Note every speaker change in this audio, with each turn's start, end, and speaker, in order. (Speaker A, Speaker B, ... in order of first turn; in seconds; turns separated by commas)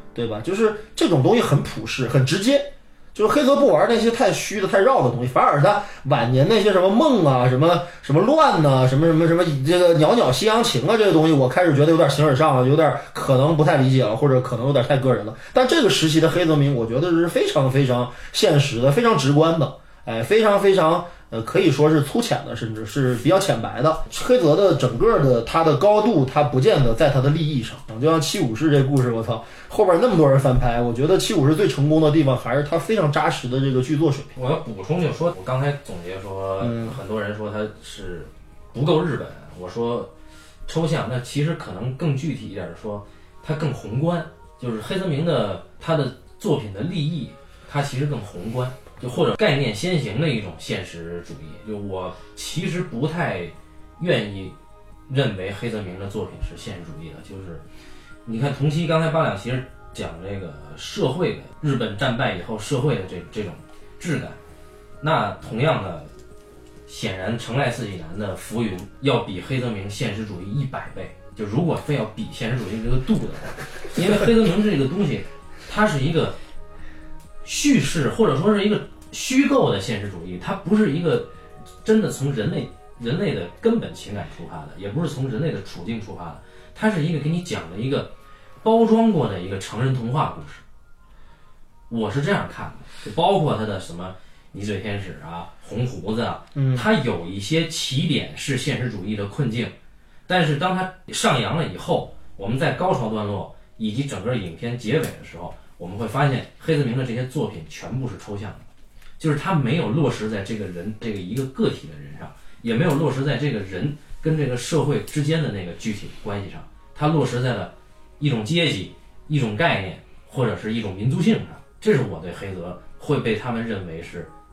Speaker A: 0.1-34.3, Speaker B: 34.3-40.1, Speaker A: 36.6-37.0, Speaker B: 40.7-54.5, Speaker B: 55.1-57.6, Speaker B: 58.2-64.4, Speaker B: 65.0-66.1, Speaker B: 66.9-76.3, Speaker B: 77.4-81.3, Speaker B: 81.8-88.1, Speaker B: 88.6-90.6, Speaker B: 91.9-99.7, Speaker A: 96.5-96.9, Speaker B: 100.3-108.6, Speaker B: 109.2-124.3